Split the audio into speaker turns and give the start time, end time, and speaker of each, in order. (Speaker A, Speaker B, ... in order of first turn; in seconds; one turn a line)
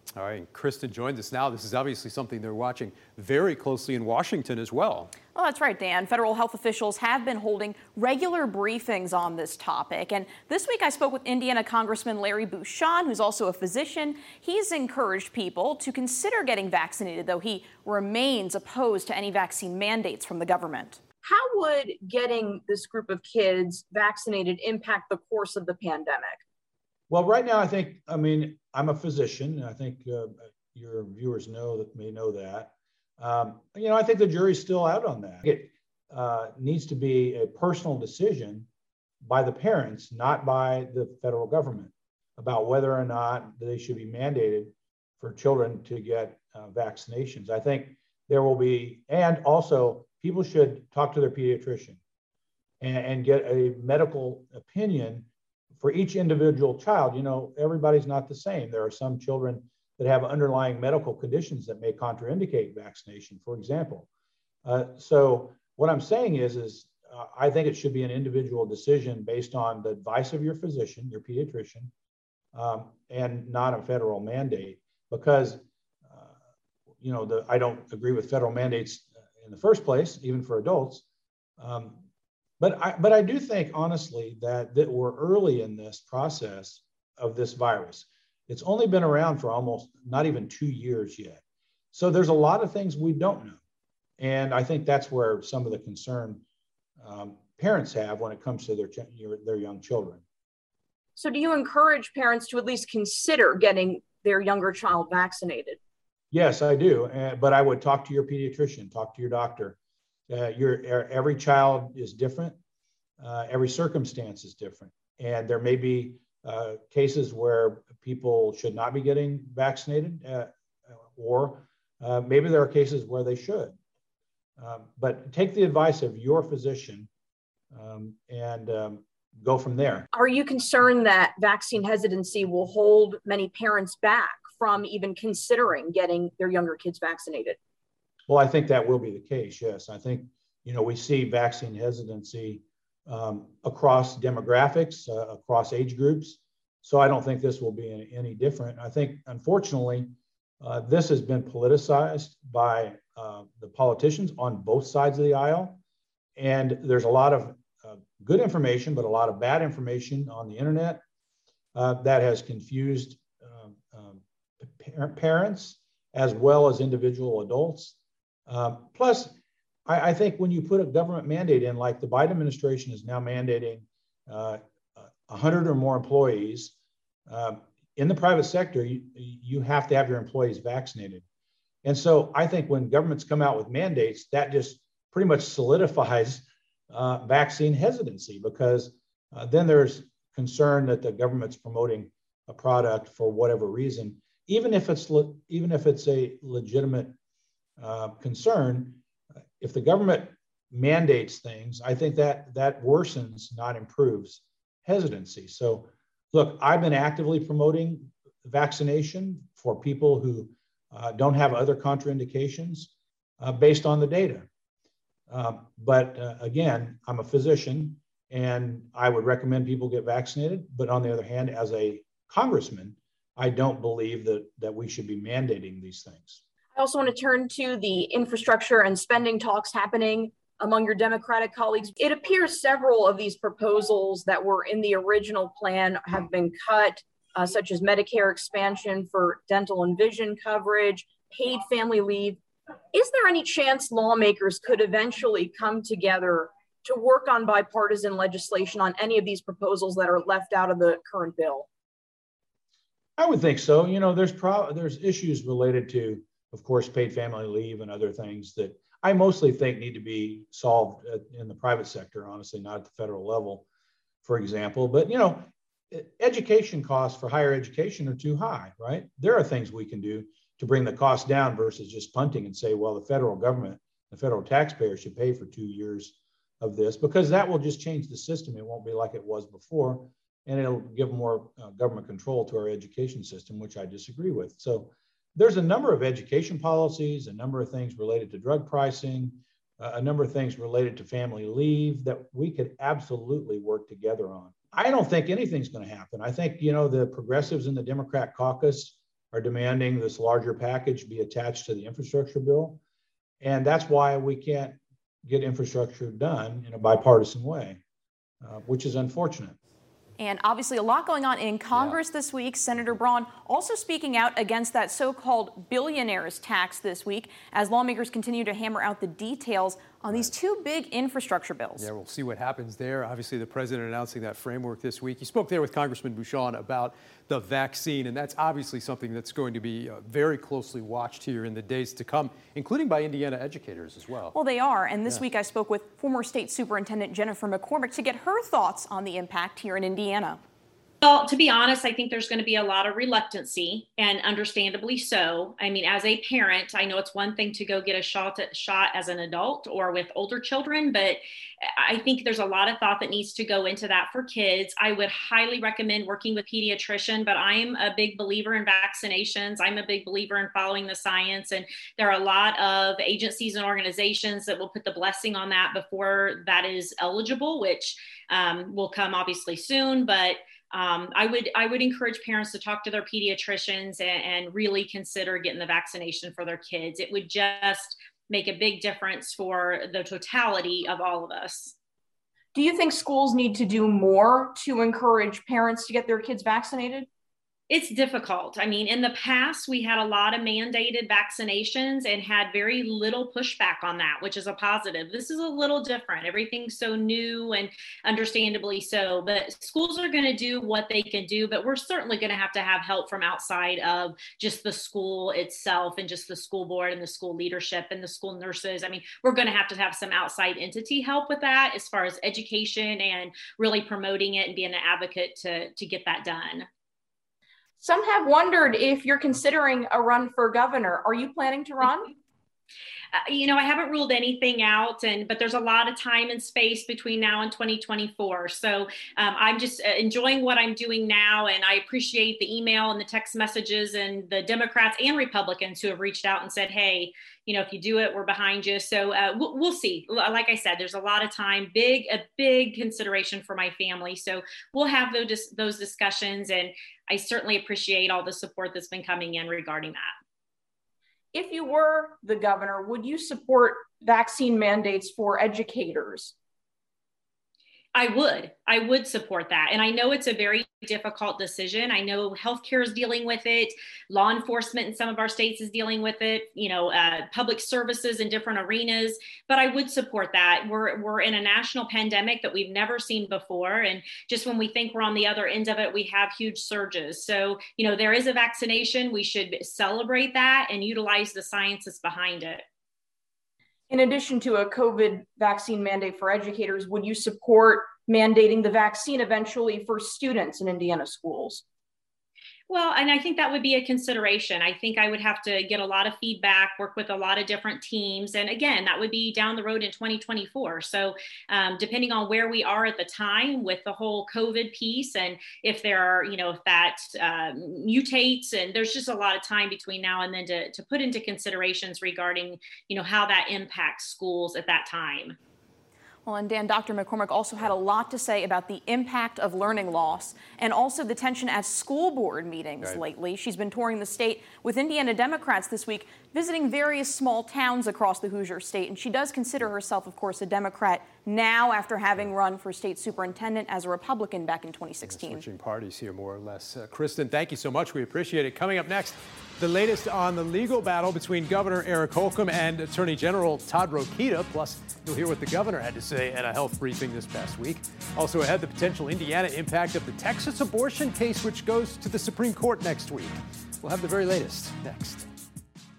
Speaker A: 0.1-5.1
Speaker B: 5.3-21.0
Speaker C: 21.2-26.4
Speaker D: 27.1-38.7
Speaker D: 39.2-52.0
Speaker D: 52.8-55.3
Speaker D: 55.8-64.1
Speaker D: 64.7-71.9
Speaker D: 72.5-76.3
Speaker D: 77.0-81.0
Speaker D: 81.6-82.0
Speaker D: 82.6-91.4
Speaker D: 91.9-93.6
Speaker D: 94.2-96.4
Speaker D: 97.0-100.2
Speaker C: 101.2-105.8
Speaker D: 106.3-109.8
Speaker D: 110.3-112.6
Speaker D: 113.2-120.5
Speaker D: 121.0-123.8
Speaker D: 124.6-127.1
Speaker D: 127.7-130.1
Speaker C: 130.1-137.6
Speaker D: 138.3-155.8
Speaker D: 156.4-161.0
Speaker D: 161.8-167.9
Speaker D: 168.5-169.3
Speaker D: 169.9-176.7
Speaker D: 177.3-181.2
Speaker D: 181.8-197.2
Speaker D: 197.8-199.0
Speaker D: 199.6-214.5
Speaker D: 215.3-226.4
Speaker C: 226.8-242.4
Speaker C: 242.9-251.7
Speaker D: 253.2-263.6
Speaker D: 264.2-302.8
Speaker D: 303.4-307.8
Speaker D: 308.4-309.6
Speaker B: 310.2-321.9
Speaker A: 311.7-312.0
Speaker A: 321.8-334.4
Speaker B: 334.3-340.4
Speaker E: 341.0-351.2
Speaker E: 351.8-381.8
Speaker C: 382.5-387.1
Speaker E: 387.7-416.7
Speaker C: 417.8-422.1
Speaker E: 423.1-450.1
Speaker C: 451.3-456.3
Speaker E: 457.9-482.6
Speaker C: 483.9-491.6
Speaker E: 492.7-515.4
Speaker B: 516.3-535.4
Speaker A: 535.0-555.3